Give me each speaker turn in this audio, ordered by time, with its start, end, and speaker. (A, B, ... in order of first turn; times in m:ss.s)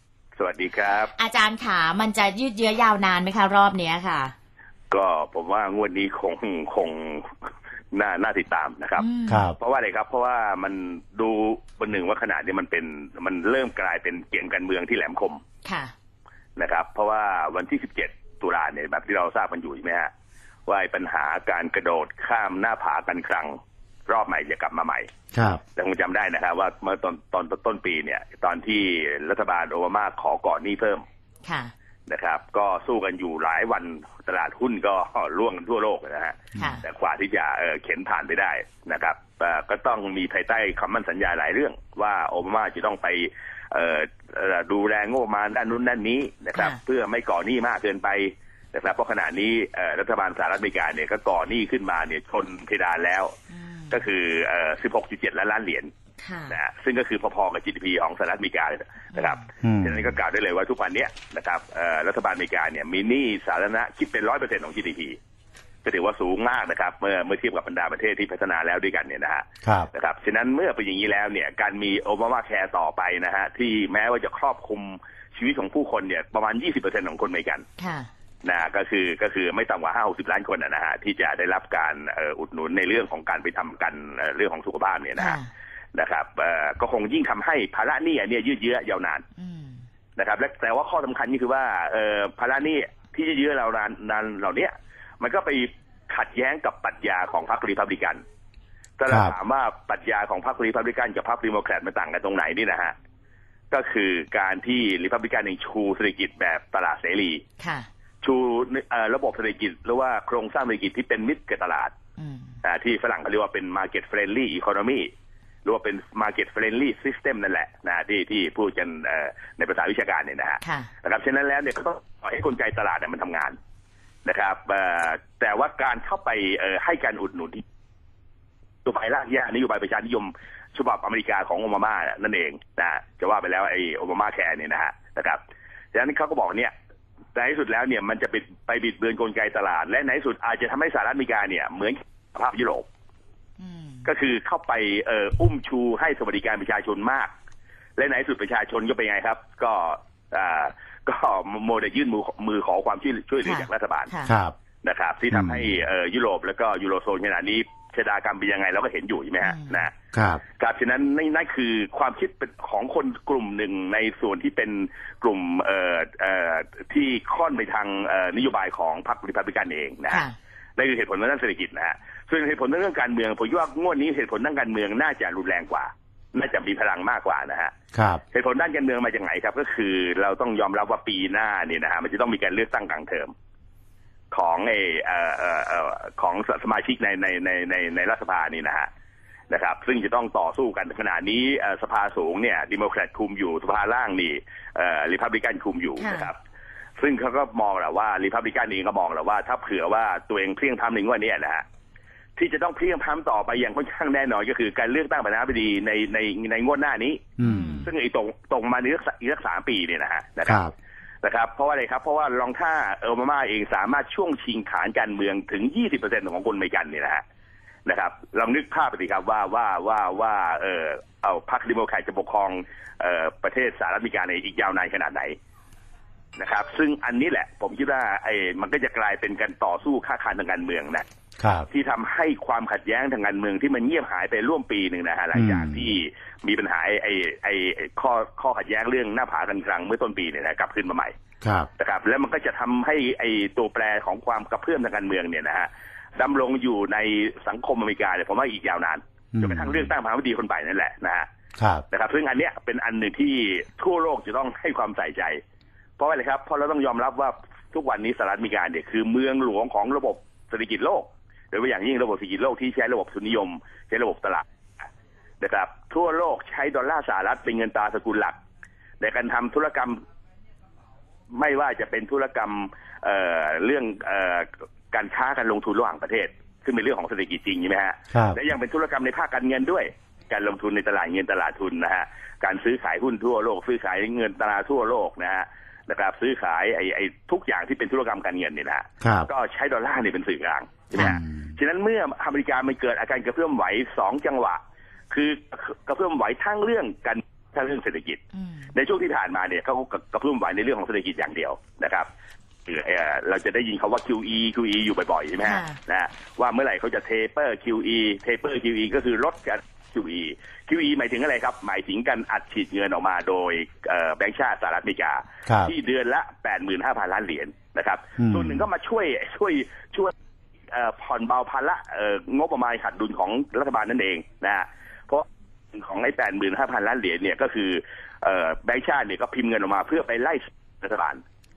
0:00.4-0:01.1 A
0:01.1-0:04.3 B
0:04.9-0:07.3 A
0:07.9-0:09.0 A
0:09.0-0:09.5 B
0:09.3-0:09.6 C
0:09.6-0:15.4 A
0:15.6-0:15.9 B
0:16.6-0:20.1 A
0:20.7-0:23.6 A
0:24.1-0:25.1 A
0:25.3-0:25.6 C
0:25.8-0:31.0 A
0:31.4-0:31.7 B
0:32.1-0:53.3 A
0:36.6-0:36.8 B
0:53.5-0:54.0 B
0:53.9-0:55.9 A
0:56.2-0:56.6 B
0:56.5-1:05.2 A
0:59.2-0:59.4 B
0:59.6-1:00.1 C
1:05.8-1:17.7 A
1:09.6-1:09.9 C
1:17.8-1:18.1 B
1:18.4-1:25.4 A
1:25.2-1:25.5 B
1:25.9-1:29.2 A
1:29.4-1:29.8 B
1:30.2-1:38.2 A
1:39.0-1:43.0 A
1:39.1-1:39.4 C
1:43.7-1:47.4 A
1:47.6-1:47.9 B
1:48.2-1:51.9 A
1:52.2-1:52.6 B
1:52.6-1:55.1 A
1:55.6-2:03.6 A
2:00.6-2:00.9 B
2:04.2-2:07.6 A
2:08.8-2:15.4 A
2:15.9-2:16.7 A
2:17.4-2:22.9 A
2:23.6-2:24.1 B
2:24.0-2:27.3 A
2:28.0-2:34.1 A
2:33.4-2:34.3 B
2:34.3-2:34.6 C
2:34.8-2:39.9 A
2:35.3-2:35.6 C
2:39.4-2:39.9 B
2:40.1-2:40.4 C
2:40.6-2:50.2 A
2:50.1-2:50.3 B
2:50.8-2:57.7 A
2:57.9-2:58.2 C
2:58.3-3:03.3 A
3:04.3-3:08.9 A
3:09.5-3:16.4 A
3:16.0-3:16.3 B
3:17.0-3:21.6 A
3:22.4-3:27.3 A
3:27.4-3:27.9 C
3:27.4-3:27.9 B
3:27.8-3:30.6 A
3:30.4-3:30.7 C
3:31.2-3:37.2 A
3:37.9-3:45.4 A
3:46.4-3:51.1 A
3:51.4-3:51.7 C
3:51.7-4:01.1 A
3:55.3-3:55.8 C
4:01.4-4:01.7 C
4:01.8-4:11.3 A
4:09.4-4:09.9 C
4:11.6-4:11.8 C
4:11.9-4:15.4 A
4:16.0-4:24.4 A
4:25.4-4:28.4 A
4:29.0-4:30.0 A
4:31.3-4:58.2 A
4:49.0-4:49.3 C
4:51.0-4:51.5 C
4:58.3-4:58.7 B
4:58.7-5:02.1 A
5:02.7-5:20.1 A
5:05.4-5:05.8 B
5:15.5-5:15.7 C
5:18.2-5:18.6 C
5:20.7-5:31.2 A